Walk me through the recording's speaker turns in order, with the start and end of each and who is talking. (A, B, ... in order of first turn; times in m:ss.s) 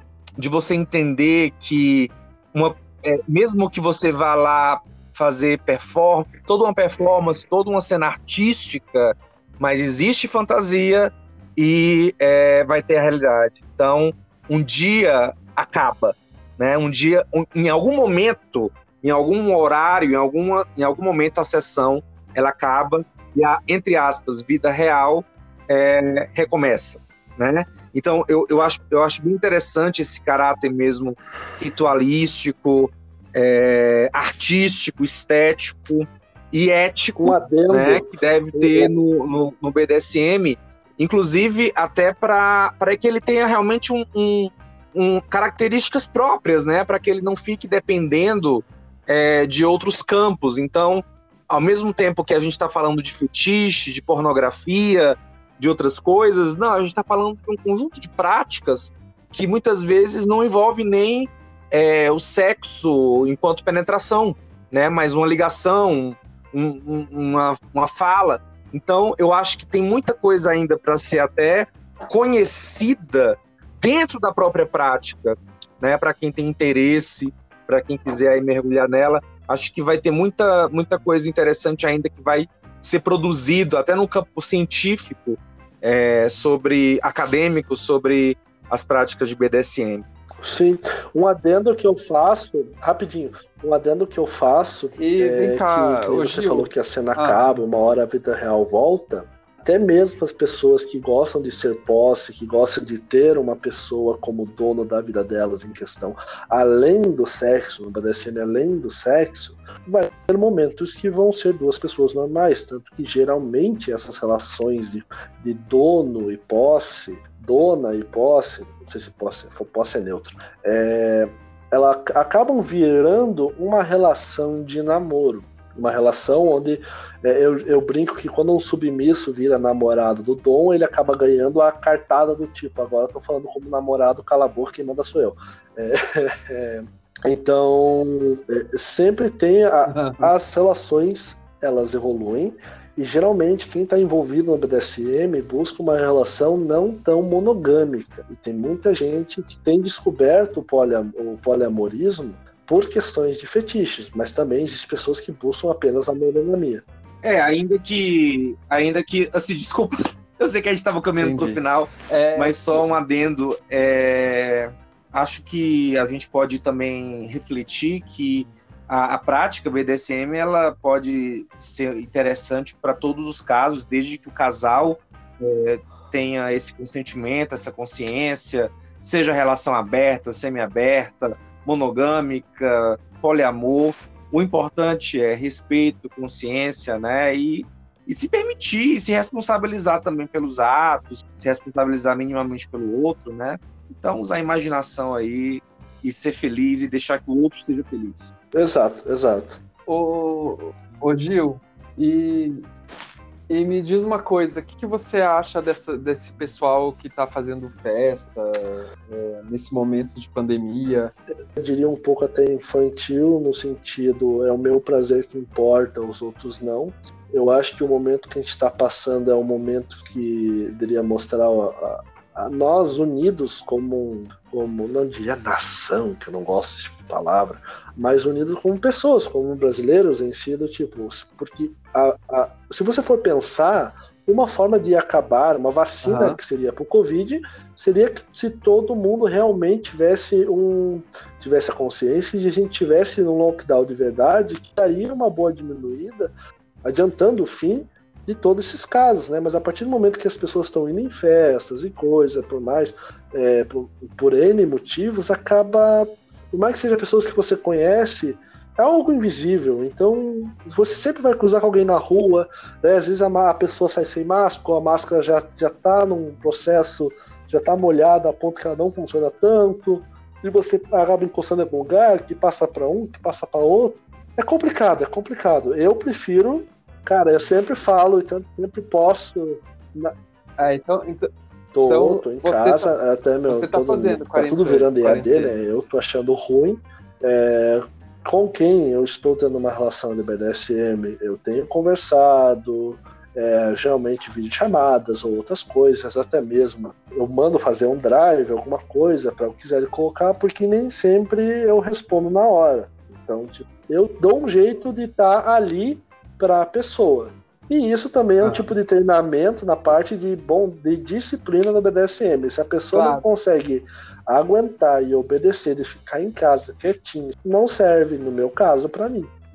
0:00.4-1:30.0 A
0:37.2-0:38.9 B
1:30.4-2:36.8 B
1:35.0-1:37.5 C
2:19.9-2:20.3 C
2:37.2-3:18.3 A
2:41.2-2:42.9 C
3:18.5-3:19.6 B
3:19.9-3:22.7 C
3:23.5-3:31.1 C
3:31.5-4:06.3 B
3:56.0-3:56.4 C
4:06.8-4:40.1 B
4:40.6-4:41.3 C
4:41.7-5:19.3 B
4:41.9-4:43.0 C
4:43.5-4:45.6 C
5:08.4-5:08.7 C
5:12.9-5:13.2 C